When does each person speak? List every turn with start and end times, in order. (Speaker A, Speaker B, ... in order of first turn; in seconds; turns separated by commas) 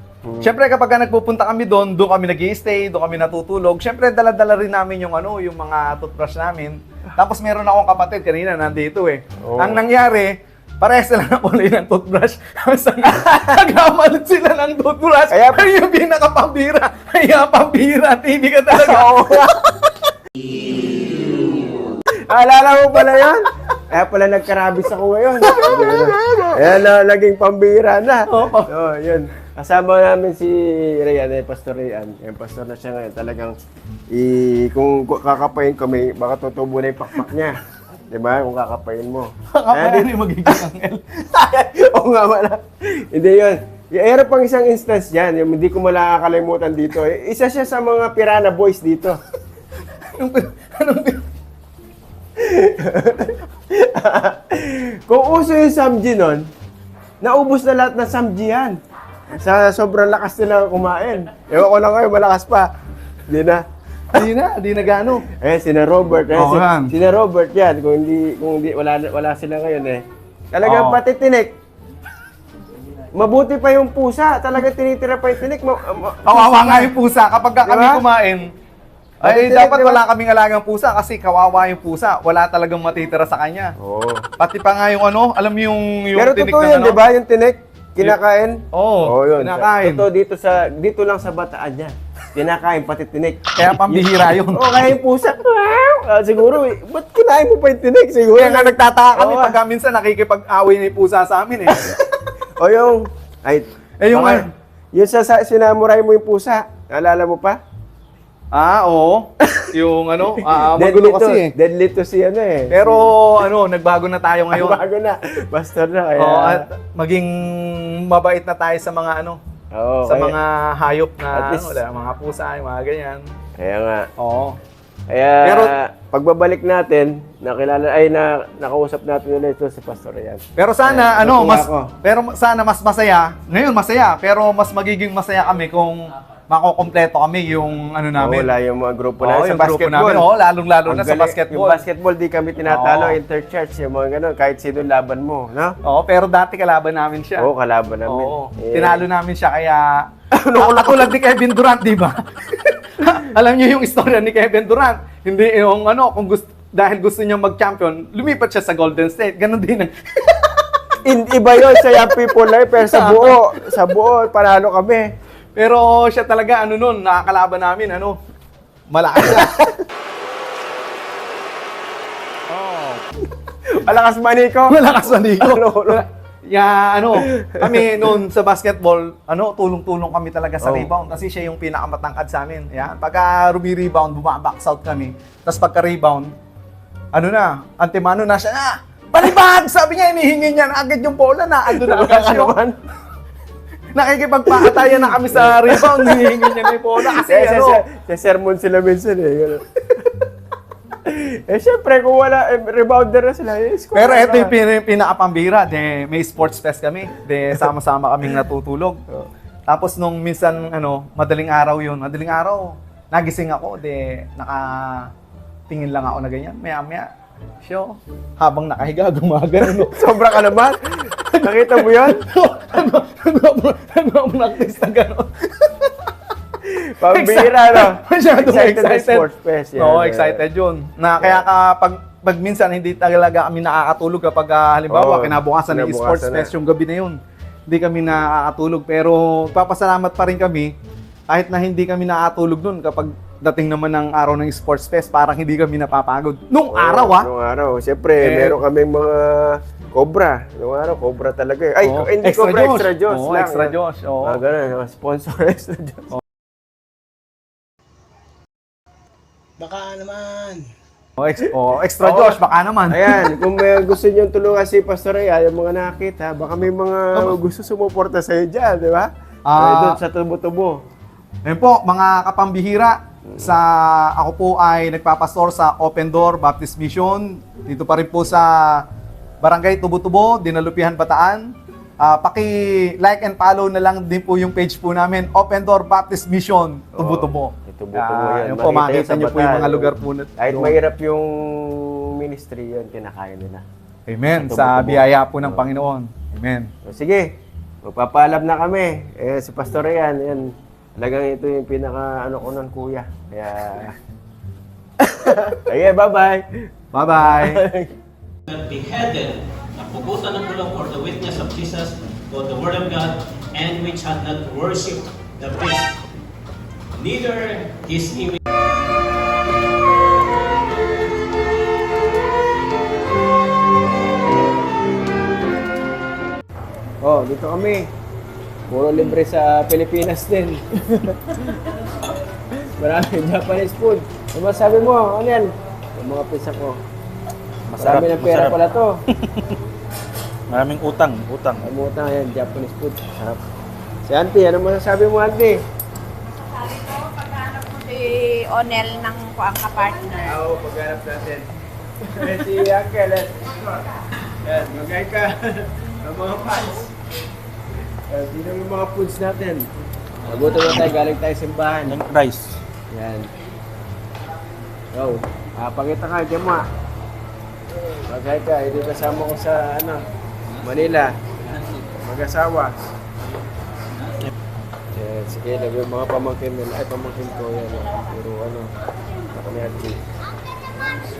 Speaker A: 0.2-0.5, Speaker B: 0.4-19.6, Speaker A: 9.4-9.8, Speaker A: 15.3-15.7, Speaker A: 18.7-19.6, Speaker A: 20.9-21.3, Speaker A: 22.3-33.5, Speaker B: 25.5-26.5, Speaker B: 28.3-28.7, Speaker A: 34.1-37.5, Speaker A: 38.1-40.7, Speaker B: 39.5-41.0, Speaker A: 41.3-49.2, Speaker B: 50.1-51.2, Speaker A: 52.4-56.5, Speaker A: 57.2-58.8, Speaker A: 59.3-62.7, Speaker A: 63.3-63.6, Speaker B: 64.1-65.2, Speaker A: 65.3-70.0, Speaker B: 66.3-66.9, Speaker A: 70.5-71.5, Speaker B: 70.6-71.0, Speaker A: 73.2-76.9, Speaker B: 76.2-78.5, Speaker A: 77.6-78.0, Speaker B: 79.2-83.7, Speaker A: 79.2-80.0, Speaker A: 83.8-84.3, Speaker B: 84.4-87.0, Speaker A: 86.2-99.6, Speaker B: 88.7-90.1, Speaker B: 93.5-95.0, Speaker B: 98.3-102.0, Speaker A: 102.6-107.6, Speaker B: 104.0-104.5, Speaker B: 108.5-111.5, Speaker A: 109.4-109.7, Speaker A: 110.4-113.1, Speaker B: 112.7-114.8, Speaker A: 114.5-116.6, Speaker B: 116.2-119.4, Speaker A: 119.7-120.3, Speaker B: 120.0-123.2, Speaker A: 121.3-121.8, Speaker A: 123.6-124.1, Speaker B: 124.2-124.6, Speaker A: 125.1-131.9, Speaker B: 125.4-125.7, Speaker B: 130.6-138.5, Speaker A: 138.2-140.3, Speaker B: 139.2-141.8, Speaker A: 140.8-145.8, Speaker B: 142.6-143.2, Speaker B: 145.8-147.5, Speaker A: 147.4-149.0, Speaker B: 148.1-150.0, Speaker A: 150.3-151.1, Speaker B: 150.6-160.6, Speaker A: 161.1-165.1, Speaker B: 162.7-163.5, Speaker B: 165.6-168.2, Speaker B: 168.9-169.7, Speaker A: 169.2-169.6, Speaker B: 172.5-173.0, Speaker A: 173.7-176.0, Speaker B: 174.7-186.3, Speaker A: 177.2-177.8, Speaker A: 180.6-180.9, Speaker B: 187.1-192.5, Speaker A: 191.7-192.8, Speaker B: 193.9-197.8, Speaker A: 194.5-200.1, Speaker A: 201.0-204.5, Speaker B: 203.9-209.0, Speaker B: 209.7-215.1, Speaker B: 215.7-217.1, Speaker B: 217.6-220.2, Speaker A: 219.6-222.2, Speaker B: 221.2-225.9, Speaker A: 226.6-230.4, Speaker B: 227.1-237.2, Speaker A: 234.9-236.5, Speaker B: 237.7-240.7, Speaker B: 241.3-247.3, Speaker A: 246.7-256.1, Speaker B: 248.2-248.6, Speaker B: 251.8-254.4, Speaker A: 259.6-260.6, Speaker B: 261.2-263.4, Speaker A: 262.0-262.4, Speaker A: 262.9-270.8, Speaker B: 269.5-270.0, Speaker B: 271.4-278.8, Speaker B: 279.4-281.5, Speaker B: 282.0-290.7, Speaker A: 287.0-293.6, Speaker B: 294.1-296.7, Speaker A: 294.3-295.6, Speaker A: 296.8-297.3, Speaker A: 297.8-303.9, Speaker A: 305.0-306.5, Speaker B: 306.9-307.6, Speaker A: 307.1-307.9, Speaker C: 308.5-315.9, Speaker C: 316.9-318.4, Speaker A: 327.0-327.9, Speaker A: 328.7-331.6, Speaker A: 332.5-336.8, Speaker D: 337.7-338.6, Speaker A: 337.8-339.0, Speaker D: 339.2-339.4, Speaker D: 340.5-341.6, Speaker A: 341.6-343.4, Speaker A: 344.1-345.6, Speaker C: 346.6-348.3, Speaker E: 347.8-350.1, Speaker A: 350.2-351.5, Speaker A: 352.1-353.5, Speaker A: 354.4-356.9, Speaker A: 358.1-359.7, Speaker A: 360.2-362.0, Speaker D: 361.9-362.6, Speaker A: 362.9-363.3, Speaker A: 364.9-366.6, Speaker A: 368.1-370.0, Speaker A: 370.6-371.1, Speaker A: 371.8-372.9, Speaker A: 374.9-378.7, Speaker A: 379.3-380.0